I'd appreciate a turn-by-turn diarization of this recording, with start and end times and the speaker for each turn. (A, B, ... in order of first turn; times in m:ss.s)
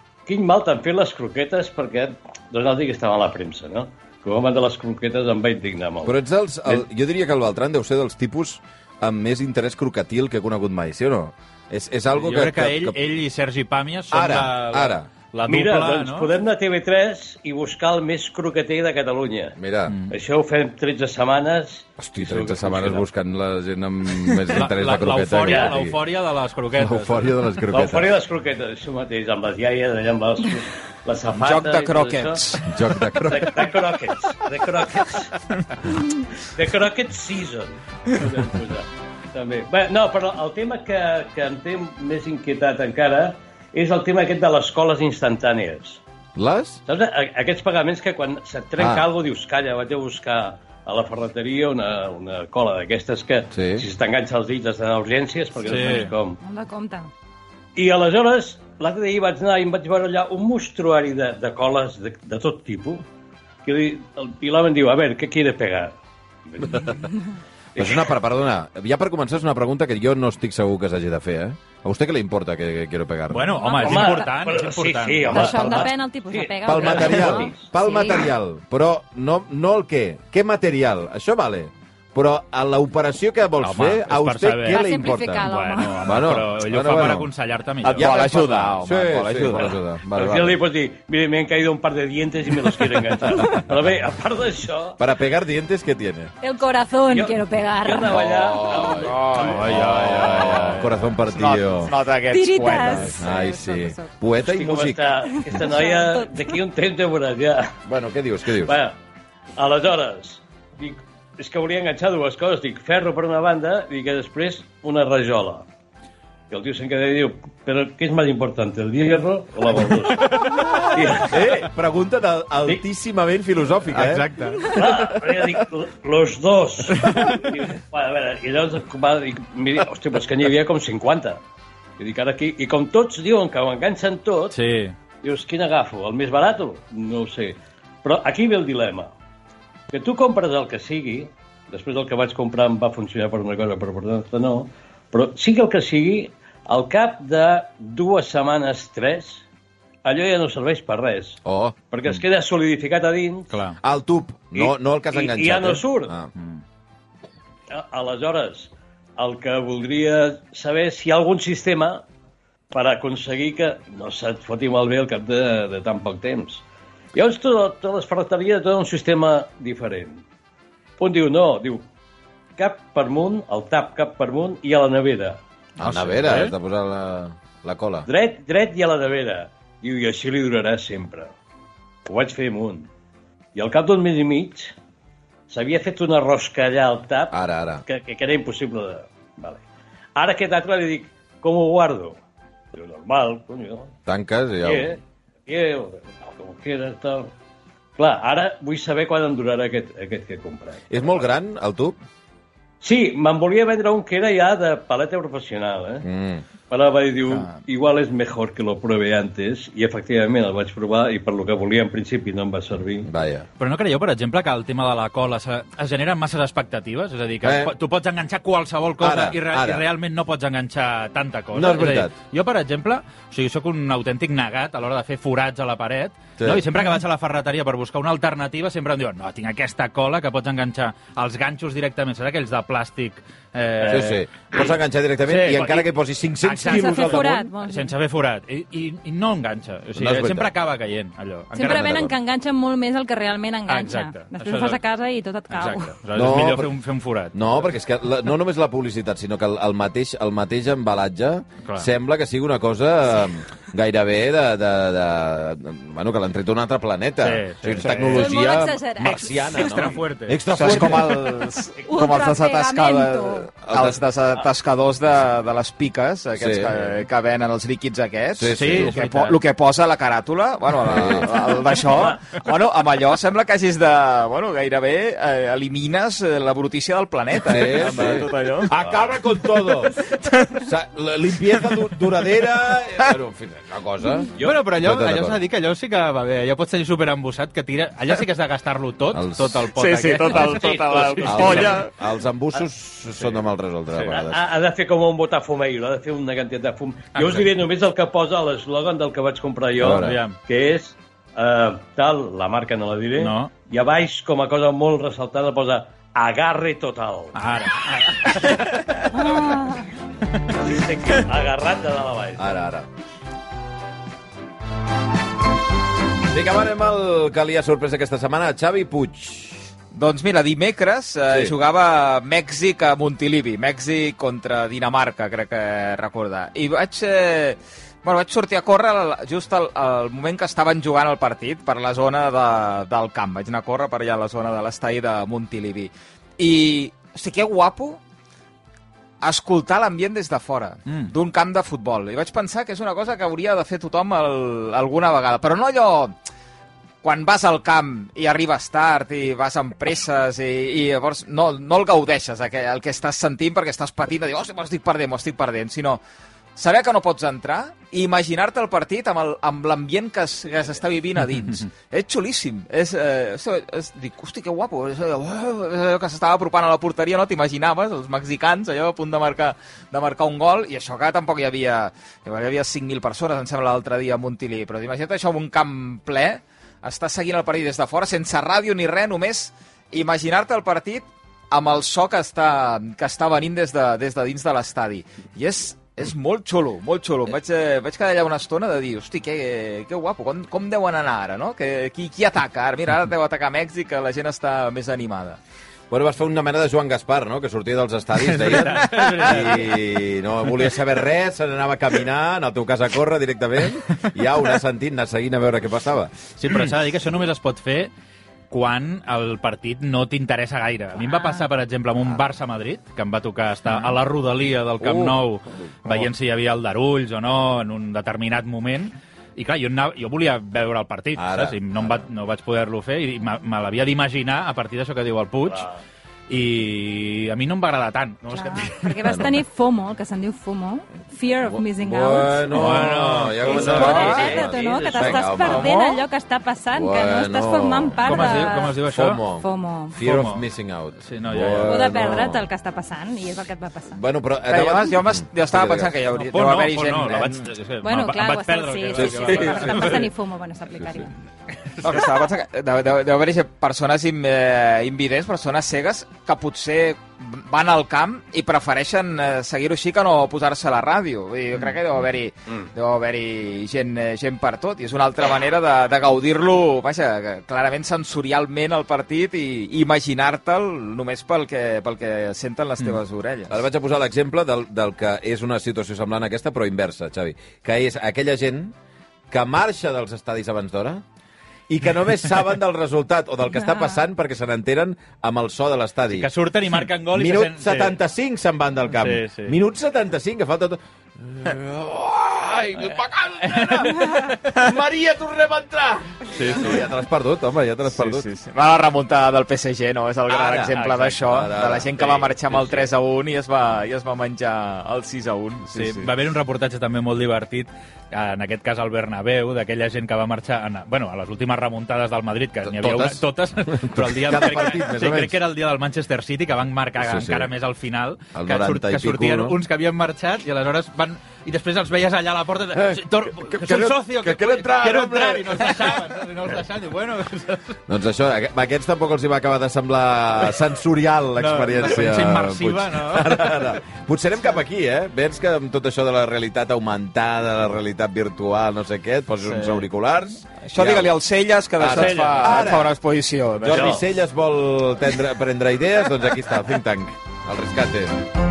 0:00.3-0:06.2 A
0:06.0-0:13.0 B
0:12.2-0:16.3 C
0:14.1-0:15.1 B
0:15.5-0:19.6 A
0:19.6-0:20.0 B
0:20.1-0:23.0 A
0:22.0-0:26.0 B
0:24.5-0:27.3 C
0:25.4-0:25.7 A
0:26.7-0:28.1 B
0:27.7-0:32.4 A
0:31.3-0:32.8 D
0:32.7-0:33.9 B
0:33.2-0:35.3 A
0:36.4-0:46.0 A
0:46.4-0:46.8 B
0:46.9-0:56.4 A
0:48.8-0:49.0 B
0:53.5-0:53.9 B
0:55.6-0:56.1 C
0:56.4-0:57.1 E
0:57.8-1:03.0 A
1:03.6-1:06.0 A
1:06.5-1:07.1 A
1:07.8-1:13.5 B
1:07.8-1:08.1 A
1:13.3-1:15.8 C
1:13.6-1:14.3 E
1:13.8-1:17.6 A
1:15.3-1:18.3 E
1:16.6-1:25.5 B
1:23.6-1:28.7 C
1:24.6-1:26.1 E
1:26.0-1:27.3 B
1:27.8-1:29.7 D
1:27.9-1:30.6 B
1:29.5-1:35.0 A
1:35.0-1:36.3 B
1:36.4-1:38.2 E
1:37.1-1:40.8 A
1:38.0-1:41.9 B
1:38.8-1:39.8 D
1:39.4-1:41.2 C
1:41.2-1:43.2 D
1:42.3-1:44.1 E
1:43.0-1:45.1 B
1:44.4-1:47.8 A
1:45.3-1:46.6 E
1:47.8-1:48.8 B
1:48.6-1:49.0 A
1:49.6-1:55.6 A
1:56.5-2:01.6 A
2:00.2-2:00.9 C
2:01.2-2:04.3 B
2:03.9-2:04.8 C
2:04.7-2:11.4 A
2:07.0-2:07.4 C
2:12.0-2:14.6 A
2:14.5-2:14.9 C
2:15.2-2:19.1 A
2:19.9-2:29.4 A
2:30.0-2:33.5 A
2:31.4-2:31.7 B
2:33.5-2:33.8 C
2:33.8-2:36.3 B
2:34.5-2:36.1 A
2:37.7-2:42.0 A
2:42.7-2:46.6 A
2:47.1-2:50.2 A
2:51.0-2:51.8 A
2:52.6-2:55.4 A
2:55.8-2:58.1 B
2:55.8-2:56.5 C
2:58.0-3:01.3 A
3:02.0-3:02.9 A
3:03.5-3:04.7 A
3:05.5-3:09.6 A
3:07.3-3:07.8 B
3:10.2-3:12.2 A
3:12.7-3:13.9 A
3:14.0-3:14.9 B
3:14.6-3:17.3 A
3:18.0-3:21.2 A
3:20.9-3:21.9 B
3:22.8-3:26.0 A
3:26.0-3:26.4 B
3:26.7-3:33.1 A
3:27.3-3:27.6 D
3:33.0-3:33.5 B
3:33.6-3:54.4 C
3:37.4-3:37.7 B
3:39.0-3:39.8 B
3:41.5-3:42.1 B
3:46.4-3:46.6 B
3:53.8-3:57.3 B
3:55.2-3:55.9 C
3:56.4-4:02.1 C
3:56.6-3:57.9 E
3:59.9-4:00.5 B
4:01.5-4:05.9 E
4:01.7-4:02.1 B
4:03.7-4:04.8 C
4:05.5-4:07.4 C
4:06.1-4:06.8 B
4:07.3-4:21.5 B
4:11.6-4:11.9 C
4:17.2-4:18.4 C
4:17.9-4:19.7 E
4:19.0-4:20.8 C
4:20.5-4:38.8 D
4:21.8-4:23.5 E
4:23.7-4:24.0 B
4:26.4-4:26.8 B
4:28.3-4:29.0 B
4:28.5-4:29.4 C
4:30.8-4:31.4 B
4:37.4-4:45.4 B
4:39.4-4:40.6 D
4:41.5-4:42.4 D
4:44.4-4:51.8 C
4:49.1-4:49.7 B
4:49.7-4:51.9 D
4:51.2-4:54.4 B
4:54.1-5:07.4 A
4:57.1-4:57.5 C
4:59.8-5:00.2 B
4:59.8-5:00.4 C
5:03.2-5:03.5 C
5:07.3-5:09.0 C
5:09.1-5:09.8 E
5:10.5-5:12.5 A
5:12.4-5:12.9 B
5:16.3-5:19.6 B
5:19.9-5:38.0 D
5:21.3-5:21.5 B
5:39.2-5:46.2 D
5:40.9-5:41.1 C
5:47.0-5:56.0 D
5:56.6-6:35.4 D
6:35.9-6:46.2 B
6:38.2-6:39.7 C
6:39.0-6:39.3 D
6:46.4-6:47.9 C
6:48.5-7:05.7 C
6:51.0-6:51.4 E
6:54.8-6:56.1 B
7:01.2-7:02.0 B
7:05.5-7:05.8 A
7:06.3-7:09.1 C
7:08.3-7:12.8 E
7:09.0-7:09.4 B
7:11.4-7:15.7 B
7:12.5-7:14.3 C
7:13.5-7:15.3 A
7:13.5-7:18.8 E
7:13.6-7:14.1 D
7:15.4-7:16.0 D
7:16.7-7:22.5 B
7:18.0-7:19.2 C
7:19.3-7:20.0 E
7:20.0-7:20.4 C
7:21.0-7:21.9 C
7:21.6-7:24.0 E
7:23.9-7:26.0 B
7:24.5-7:27.5 D
7:26.1-7:30.1 C
7:27.8-7:31.1 E
7:29.0-7:30.0 B
7:31.7-7:32.0 C
7:31.8-7:53.6 D
7:53.5-7:58.7 B
7:59.3-8:01.0 B
8:01.7-8:06.3 B
8:06.1-8:08.0 C
8:07.1-8:18.3 B
8:09.0-8:09.6 C
8:13.4-8:14.4 C
8:16.3-8:16.8 C
8:17.9-8:26.1 D
8:20.3-8:22.9 B
8:25.7-8:47.8 C
8:32.6-8:35.4 B
8:37.0-8:37.5 B
8:38.3-8:39.6 B
8:42.7-8:45.9 B
8:47.9-9:01.1 B
8:51.4-8:53.8 C
9:00.7-9:04.0 D
9:01.8-9:02.9 B
9:01.8-9:02.8 C
9:03.6-9:08.2 B
9:03.7-9:04.0 A